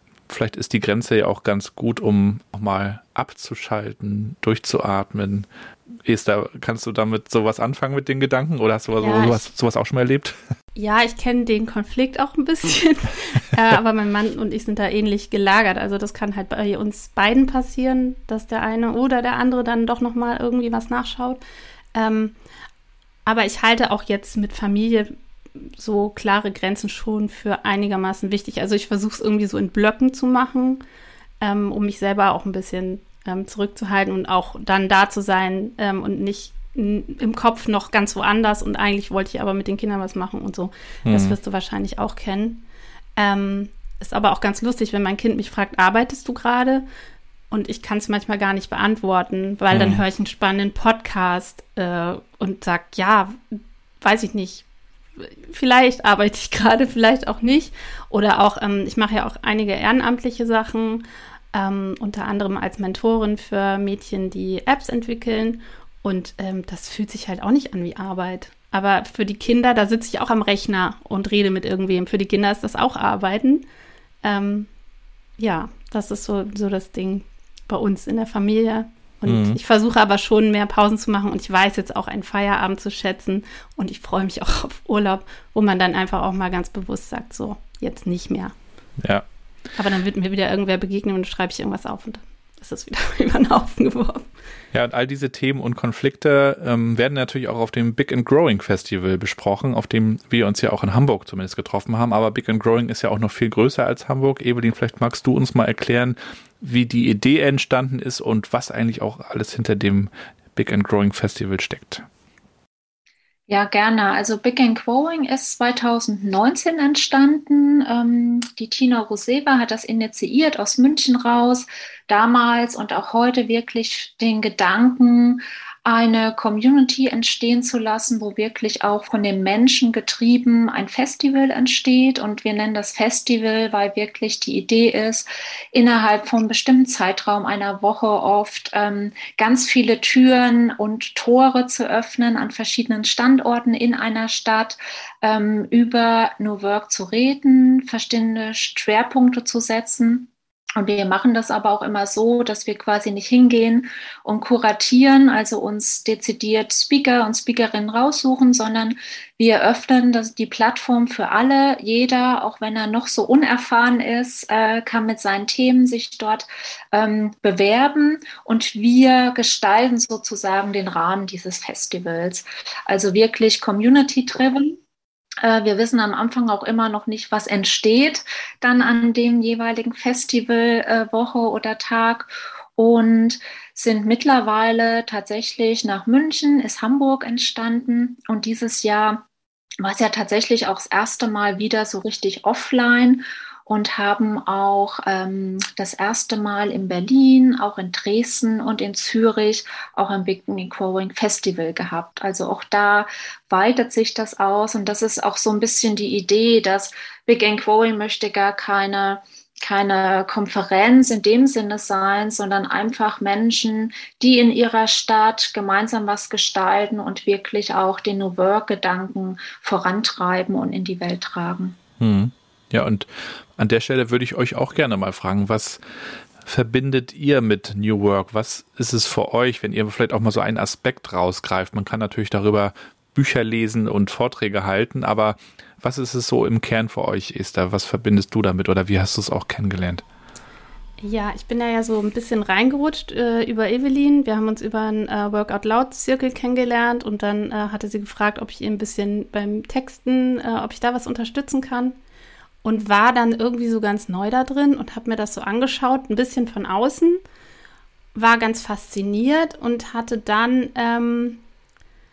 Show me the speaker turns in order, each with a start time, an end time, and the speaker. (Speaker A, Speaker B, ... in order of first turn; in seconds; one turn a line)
Speaker A: 0.3-5.5
Speaker A: 6.0-10.3
Speaker B: 9.0-9.4
Speaker B: 10.8-21.4
Speaker B: 21.9-22.4
Speaker B: 23.3-30.8
Speaker B: 31.4-42.6
Speaker A: 41.1-41.4
Speaker B: 43.2-46.9
Speaker B: 47.5-54.7
Speaker A: 49.7-50.0
Speaker B: 55.2-73.7
Speaker B: 74.2-74.7
Speaker B: 75.4-88.5
Speaker A: 79.3-79.6
Speaker B: 89.8-94.3
Speaker A: 94.7-112.0
Speaker C: 113.5-174.8
Speaker C: 175.4-189.3
Speaker C: 189.8-221.8
Speaker A: 222.0-225.8
Speaker A: 226.4-240.0
Speaker B: 241.0-252.0
Speaker B: 252.6-257.2
Speaker B: 258.1-261.4